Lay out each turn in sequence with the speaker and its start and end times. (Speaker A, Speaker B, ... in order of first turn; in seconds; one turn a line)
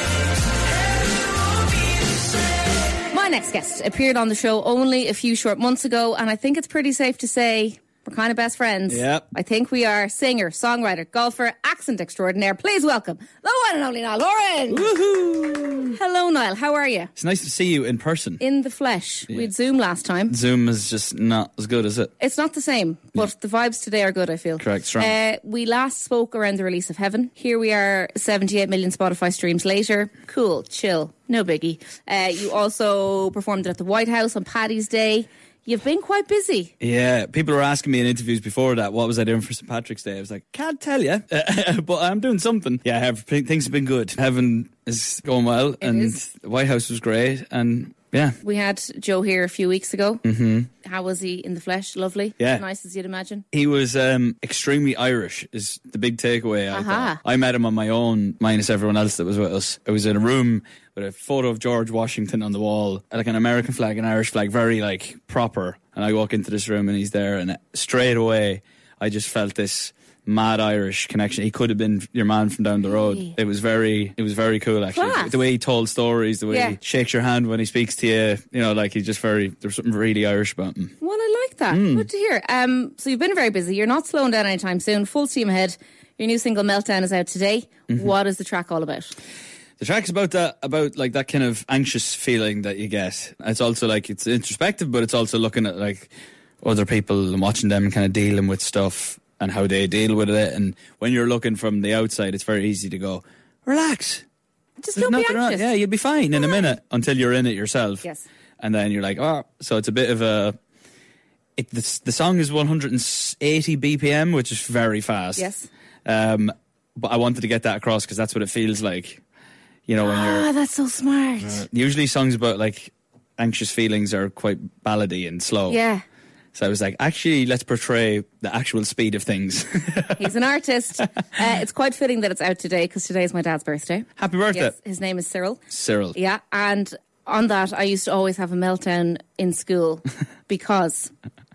Speaker A: 3.1-14.9
Speaker B: 8.9-9.2
Speaker B: 14.7-16.0
Speaker A: 15.9-17.1
Speaker B: 17.2-18.4
Speaker A: 18.4-20.4
Speaker B: 20.3-22.1
Speaker A: 22.2-36.7
Speaker B: 24.6-25.1
Speaker B: 36.8-48.4
Speaker A: 45.8-46.1
Speaker A: 48.4-50.2
Speaker B: 50.2-50.7
Speaker A: 50.8-53.4
Speaker B: 52.4-52.6
Speaker B: 53.5-80.9
Speaker A: 56.7-57.2
Speaker A: 74.9-75.4
Speaker A: 76.5-76.8
Speaker A: 81.0-89.1
Speaker B: 81.7-82.1
Speaker B: 89.8-96.1
Speaker B: 96.6-104.2
Speaker A: 104.8-105.7
Speaker B: 105.0-108.0
Speaker A: 106.3-106.7
Speaker B: 108.6-110.6
Speaker B: 111.6-115.5
Speaker A: 115.4-115.7
Speaker B: 116.0-119.2
Speaker B: 119.9-120.5
Speaker A: 120.0-121.7
Speaker B: 121.4-125.8
Speaker A: 125.7-126.0
Speaker B: 126.5-130.3
Speaker A: 130.2-135.6
Speaker B: 134.2-134.7
Speaker B: 135.7-136.2
Speaker A: 136.1-141.1